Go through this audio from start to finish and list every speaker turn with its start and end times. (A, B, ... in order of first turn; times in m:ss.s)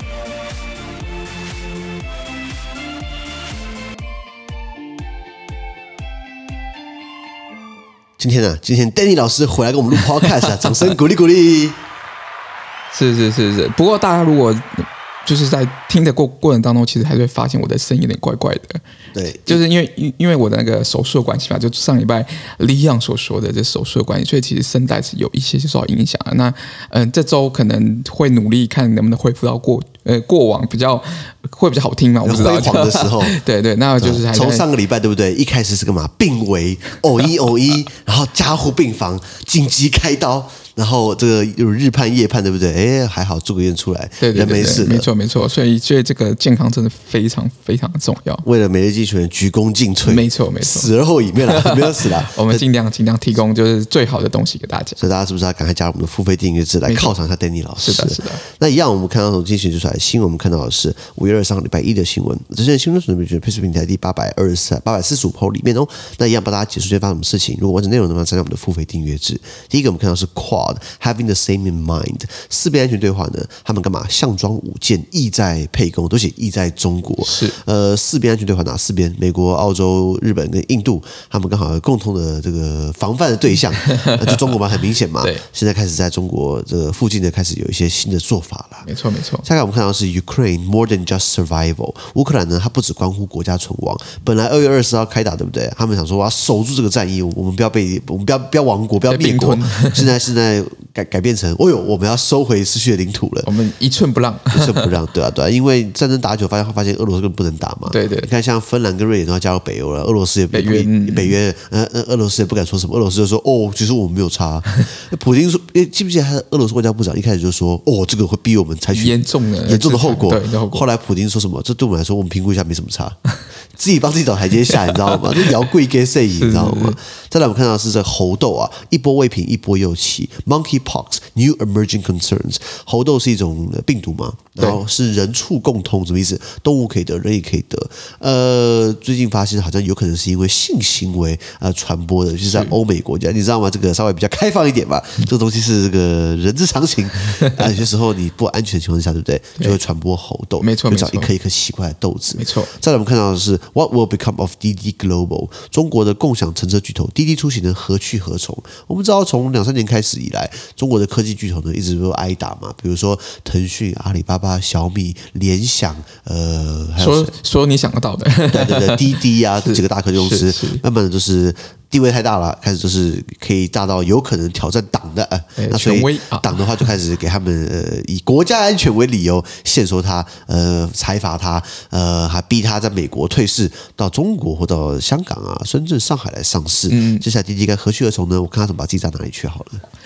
0:08.2-0:11.8 A
0:12.9-0:18.8 B
0:19.1-0:19.6 A
0:19.5-0:34.6 B
0:32.2-0:33.4 A
0:34.0-0:45.1 A
0:44.2-0:48.4 B
0:48.4-0:52.7 A
0:50.0-0:50.9 B
0:51.5-0:51.8 B
0:52.3-0:55.0 B
0:55.0-1:28.9 A
0:56.9-0:57.1 B
0:57.8-0:58.4 B
1:17.2-1:17.6 B
1:28.9-1:29.5 B
1:29.4-1:43.5 A
1:39.1-1:40.1 B
1:43.5-1:44.9 B
1:44.5-2:03.2 A
1:47.9-1:48.3 B
1:50.5-1:51.3 B
1:58.9-2:00.9 B
2:03.7-2:47.3 A
2:06.4-2:07.0 B
2:22.4-2:22.7 B
2:30.6-2:31.3 B
2:32.4-2:32.7 B
2:47.0-2:50.8 B
2:48.5-3:09.8 A
2:55.6-2:56.9 B
3:06.9-3:07.2 B